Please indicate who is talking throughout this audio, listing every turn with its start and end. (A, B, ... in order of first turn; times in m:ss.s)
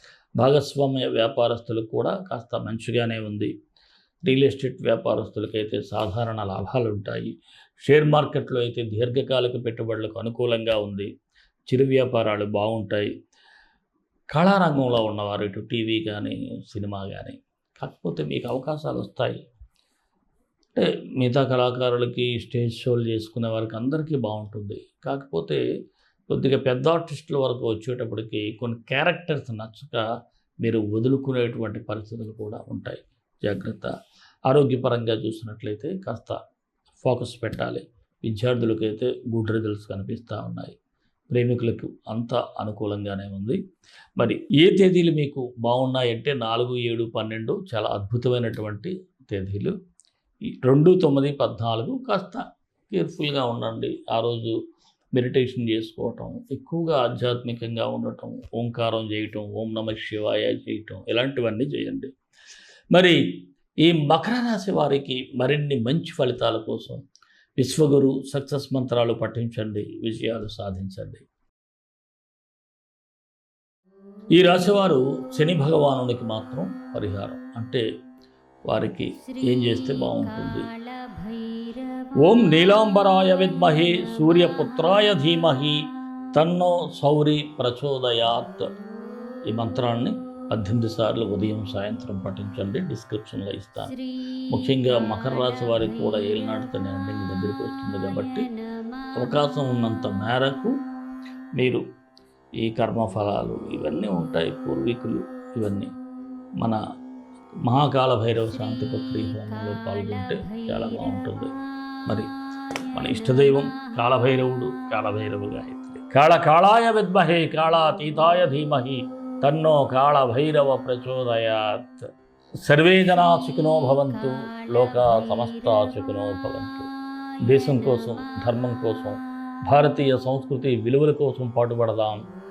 0:00.4-0:03.5 A
0:04.2-0:07.3 A
0:07.8-0:11.1 A
0:11.7-0:13.1 A
0:14.3-0:19.4 A
0:20.8-0:25.6 A
0:26.3-0:30.1 A
0:30.6-0:33.9 A
0:34.5-0:36.4 A
0:37.0-0:40.8 A
0:41.3-0:43.6 A
0:44.2-0:49.8 A
0:50.6-0:54.6 A
0:55.2-1:02.1 A
1:02.9-1:03.2 A
1:03.8-1:07.0 A
1:07.6-1:11.2 A
1:14.4-1:17.8 A
1:18.7-1:20.7 A
1:22.2-1:28.7 A
1:29.5-1:34.0 A
1:34.5-1:38.5 A
1:39.2-1:40.7 A
1:41.6-1:41.8 A
1:42.6-1:45.9 A
1:47.6-1:51.5 A
1:52.9-2:02.1 A
2:02.6-2:06.9 A
2:07.5-2:12.2 A